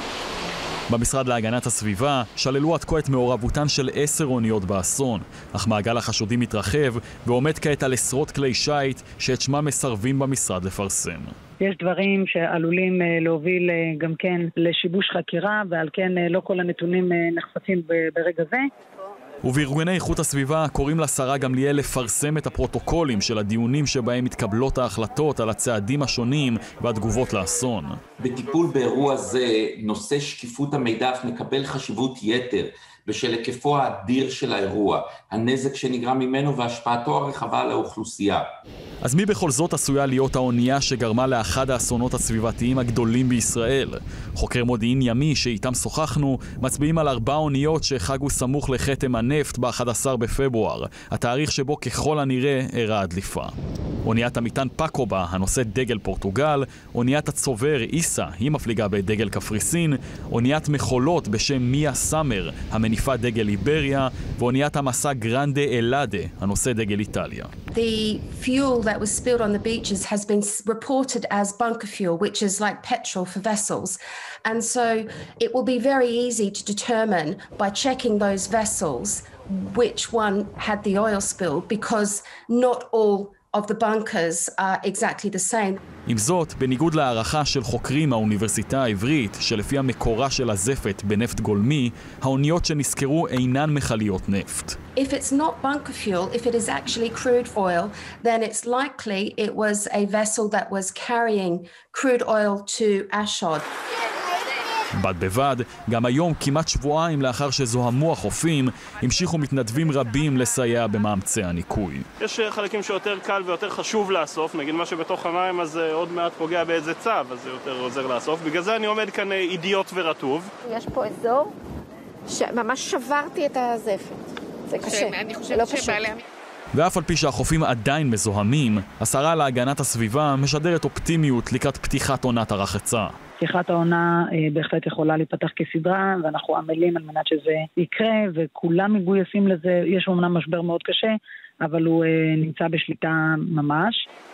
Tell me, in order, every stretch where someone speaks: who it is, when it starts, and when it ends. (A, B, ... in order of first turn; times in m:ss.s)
0:00.9-0:11.3 A
0:11.6-0:18.7 B
0:19.4-0:28.0 A
0:28.2-0:38.4 C
0:39.0-0:53.5 A
0:54.0-1:07.5 A
1:07.7-1:25.8 D
1:26.1-1:34.8 A
1:35.0-1:43.6 D
1:45.0-1:52.0 A
1:52.2-2:00.5 E
2:00.6-2:01.5 F
2:02.3-2:06.2 F
2:06.7-2:13.1 A
2:13.4-2:24.0 B